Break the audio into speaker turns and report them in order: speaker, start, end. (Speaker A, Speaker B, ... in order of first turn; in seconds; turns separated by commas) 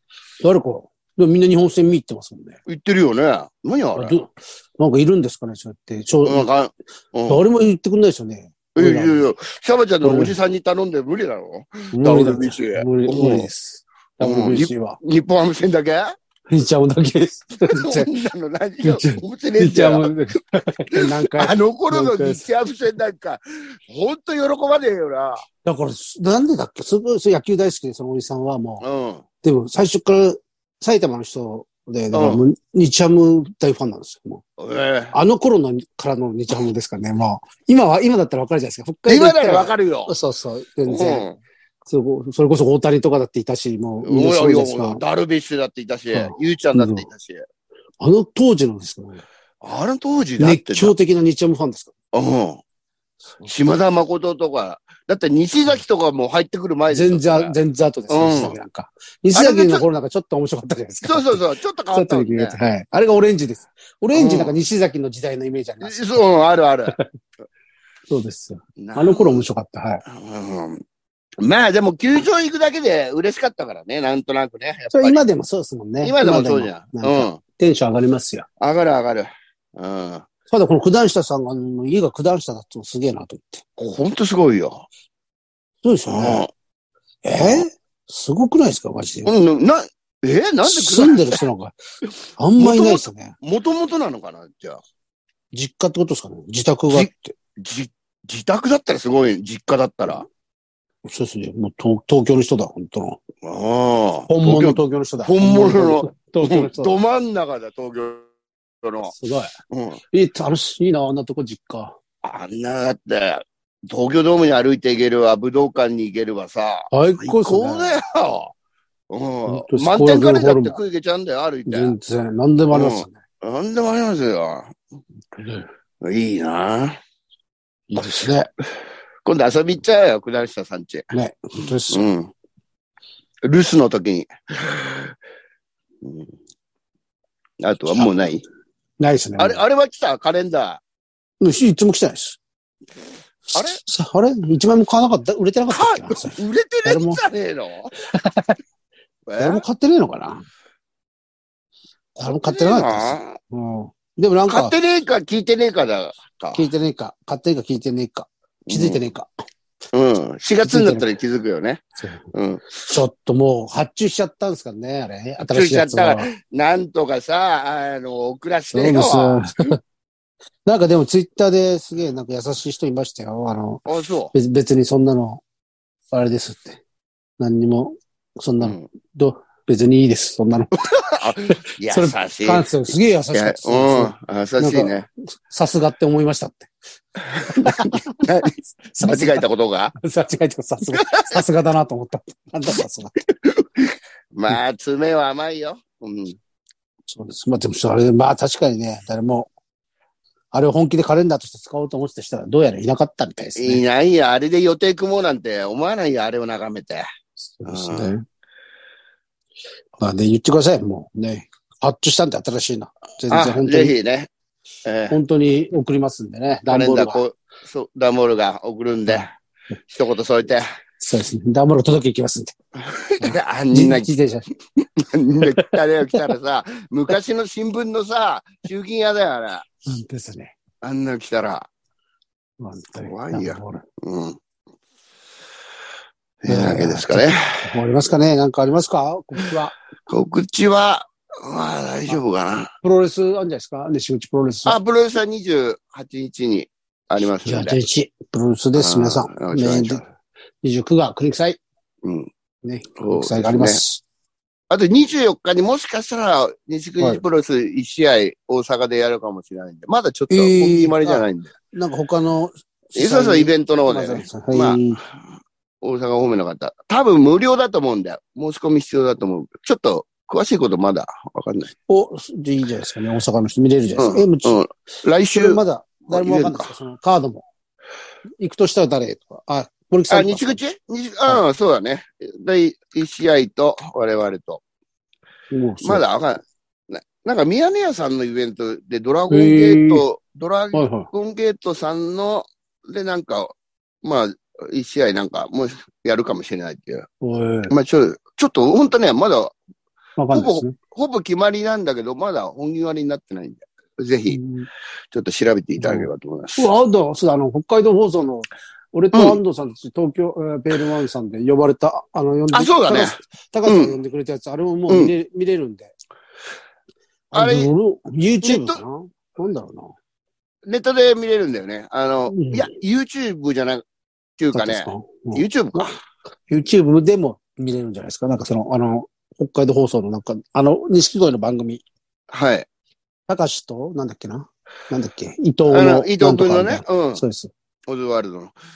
Speaker A: 0.4-2.6, Speaker B: 2.7-4.2, Speaker A: 4.0-6.5, Speaker B: 6.2-7.4, Speaker A: 7.3-9.3, Speaker B: 8.8-13.5, Speaker A: 10.0-10.4, Speaker A: 11.9-15.0, Speaker B: 14.2-16.1, Speaker A: 16.5-18.1, Speaker B: 17.7-20.1, Speaker A: 18.8-22.4, Speaker B: 20.9-25.4, Speaker A: 25.6-28.9, Speaker B: 28.8-29.2, Speaker A: 29.4-34.4, Speaker B: 32.1-32.4, Speaker B: 34.6-35.2, Speaker A: 35.1-41.2, Speaker B: 39.1-40.1, Speaker B: 40.9-41.4, Speaker A: 41.9-45.0, Speaker B: 44.0-47.4, Speaker A: 46.1-47.1, Speaker A: 48.0-49.2, Speaker B: 49.6-51.0, Speaker A: 50.4-51.9, Speaker B: 52.1-52.6, Speaker B: 53.4-57.6, Speaker A: 56.9-61.4, Speaker B: 58.1-58.6, Speaker B: 59.3-59.9, Speaker B: 61.0-62.6, Speaker A: 61.9-66.2, Speaker B: 64.1-64.6, Speaker B: 65.8-67.0, Speaker A: 68.1-70.0, Speaker B: 68.8-69.5, Speaker B: 70.0-70.8, Speaker B: 71.4-75.2, Speaker A: 74.9-78.5, Speaker B: 76.0-77.4, Speaker B: 78.6-80.3, Speaker A: 80.5-83.7, Speaker B: 83.8-84.9, Speaker A: 85.8-86.5, Speaker B: 86.1-86.5, Speaker A: 87.2-89.3, Speaker B: 87.3-87.7, Speaker B: 89.3-91.4, Speaker A: 90.6-91.8, Speaker A: 92.4-93.4, Speaker B: 92.6-94.8, Speaker A: 95.5-97.3, Speaker B: 96.9-100.3, Speaker A: 101.0-103.2, Speaker B: 103.4-108.3, Speaker A: 104.3-107.0, Speaker B: 108.8-109.1, Speaker A: 109.1-109.6, Speaker B: 109.7-110.0, Speaker A: 110.1-112.0, Speaker B: 112.2-118.5, Speaker A: 116.9-118.0, Speaker B: 119.1-122.0, Speaker A: 119.5-120.8, Speaker A: 121.7-123.2, Speaker B: 122.7-124.8, Speaker A: 125.3-125.7, Speaker B: 126.0-127.0, Speaker A: 127.9-128.5, Speaker B: 129.2-131.1, Speaker A: 131.1-132.1, Speaker B: 131.9-132.3, Speaker B: 133.5-135.2, Speaker B: 136.0-136.3, Speaker B: 137.6-138.4, Speaker A: 139.0-139.6, Speaker B: 139.4-140.8, Speaker A: 141.4-142.4, Speaker B: 143.5-143.8, Speaker A: 143.5-147.2, Speaker B: 145.7-147.9, Speaker A: 148.0-148.6, Speaker B: 149.3-149.6, Speaker A: 149.4-150.5, Speaker B: 152.2-153.4, Speaker A: 152.2-154.8, Speaker B: 154.5-156.7, Speaker A: 156.5-159.3, Speaker B: 158.7-159.0, Speaker B: 159.9-161.8, Speaker A: 160.6-161.1, Speaker A: 162.0-166.3, Speaker B: 162.3-162.7, Speaker B: 165.5-169.8, Speaker A: 168.7-169.8, Speaker A: 170.7-175.4, Speaker B: 173.9-174.3, Speaker A: 176.1-176.8, Speaker A: 177.4-186.7, Speaker B: 181.1-182.7, Speaker B: 183.3-185.1, Speaker A: 187.4-189.4, Speaker B: 187.4-189.9, Speaker A: 190.0-193.1, Speaker B: 191.0-191.4, Speaker B: 193.4-196.4, Speaker A: 197.1-199.5, Speaker A: 200.5-203.8, Speaker B: 203.6-207.1, Speaker A: 207.4-208.2, Speaker B: 207.7-208.1, Speaker A: 210.0-213.9, Speaker B: 213.3-214.3, Speaker B: 214.8-215.2, Speaker A: 215.1-217.2, Speaker B: 216.7-219.3, Speaker B: 219.9-220.7, Speaker A: 221.0-222.6, Speaker B: 222.8-224.1, Speaker A: 223.2-224.4, Speaker B: 224.8-229.7, Speaker A: 225.4-225.8, Speaker A: 229.9-230.6, Speaker B: 230.8-231.7, Speaker A: 232.6-233.8, Speaker B: 233.0-234.4, Speaker B: 236.4-237.7, Speaker A: 236.5-239.8, Speaker B: 240.1-242.7, Speaker A: 242.8-244.8, Speaker B: 244.7-247.8, Speaker A: 247.4-250.1, Speaker B: 248.8-250.0, Speaker A: 250.6-251.6, Speaker B: 252.0-252.3, Speaker A: 252.6-254.0, Speaker B: 253.0-253.8, Speaker B: 254.7-261.5, Speaker A: 260.3-265.0, Speaker B: 263.0-265.1, Speaker B: 265.8-271.7, Speaker A: 271.9-274.6, Speaker B: 274.0-276.7, Speaker A: 275.3-277.4, Speaker A: 278.4-280.6, Speaker B: 280.1-284.6, Speaker A: 285.5-286.0, Speaker B: 285.8-297.1, Speaker A: 289.3-290.1, Speaker A: 290.7-291.1, Speaker A: 297.2-297.7, Speaker B: 297.7-299.6, Speaker A: 300.2-300.8, Speaker B: 300.3-304.4, Speaker A: 304.3-304.7, Speaker B: 305.1-306.7, Speaker A: 305.8-315.9, Speaker B: 309.1-309.4, Speaker B: 312.5-313.9, Speaker B: 314.9-315.1, Speaker A: 317.3-319.9, Speaker B: 317.3-317.7, Speaker B: 318.4-318.8, Speaker B: 320.7-323.8, Speaker A: 322.3-322.7, Speaker B: 324.4-325.9, Speaker A: 324.5-325.9, Speaker A: 326.5-331.8, Speaker B: 332.3-332.7, Speaker A: 333.3-337.5, Speaker B: 335.7-337.2, Speaker B: 337.9-338.5